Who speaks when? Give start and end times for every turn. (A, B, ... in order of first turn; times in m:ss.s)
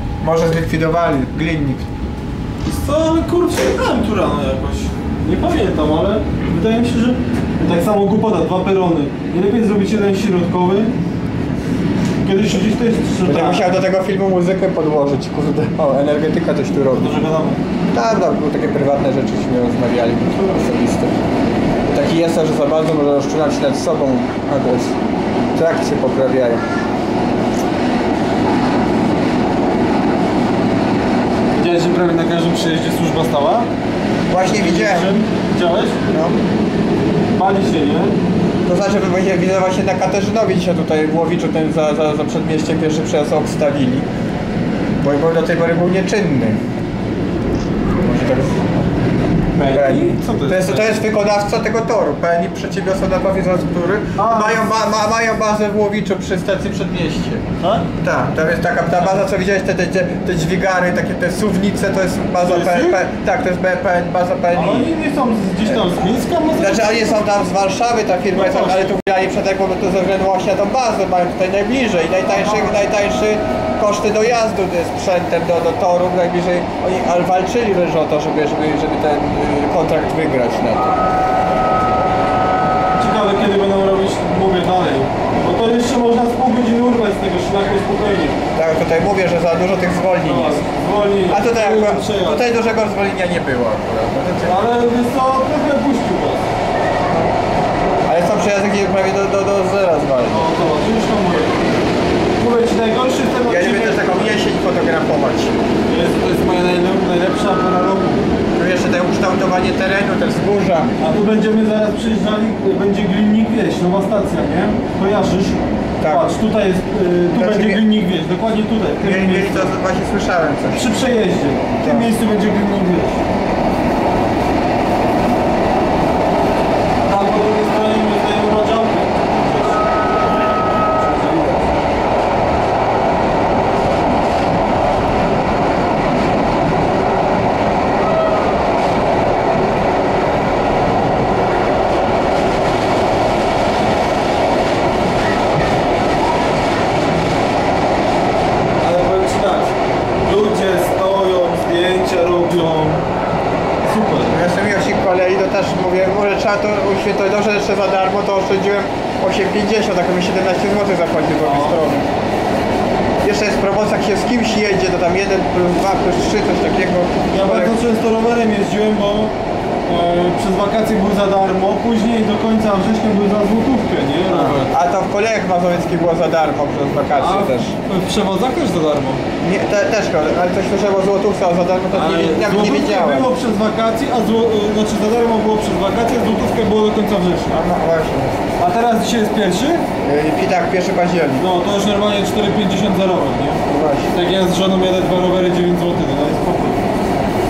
0:00.2-0:01.9 A
0:02.7-0:10.9 B
0:12.2-0:13.8 B
0:13.3-0:17.2 A
0:16.9-0:17.6 B
0:17.9-0:21.2 A
0:21.9-0:25.0 A
0:25.6-0:26.6 A
0:31.5-0:33.7 B
0:34.3-0:35.1 A
0:34.4-0:36.1 B
0:36.1-0:36.4 A
0:37.3-0:38.2 B
0:38.7-0:44.1 A
0:45.0-0:46.6 A
0:48.0-0:48.8 A
0:49.5-0:51.0 B
0:49.7-0:57.4 A
0:54.2-0:54.7 B
0:57.6-0:57.9 B
0:58.0-1:04.9 A
1:02.4-1:03.0 B
1:04.5-1:07.2 B
1:06.6-1:21.0 A
1:08.4-1:08.9 B
1:23.0-1:28.4 B
1:28.6-1:30.7 A
1:30.2-1:32.5 B
1:31.3-1:34.7 A
1:34.4-1:36.5 B
1:38.1-1:40.5 A
1:40.3-1:41.6 B
1:42.4-1:44.4 B
1:43.5-1:45.6 A
1:45.9-1:48.3 B
1:48.6-1:50.9 A
1:51.0-1:59.8 B
1:56.0-1:56.3 A
1:57.3-1:57.8 A
1:59.0-2:00.9 A
2:00.7-2:03.2 B
2:01.8-2:02.1 A
2:07.1-2:09.8 B
2:10.8-2:11.7 B
2:28.8-2:33.0 B
2:33.8-2:34.4 B
2:34.3-2:42.1 A
2:41.4-2:41.9 B
2:43.2-2:47.8 A
2:47.3-2:49.4 B
2:49.9-2:54.7 B
2:54.3-2:57.8 A
2:57.2-2:59.2 B
2:59.4-3:03.3 A
3:01.9-3:07.6 B
3:07.5-3:08.5 A
3:08.6-3:09.9 B
3:10.0-3:11.4 A
3:11.4-3:13.6 B
3:13.7-3:14.1 A
3:14.1-3:16.8 B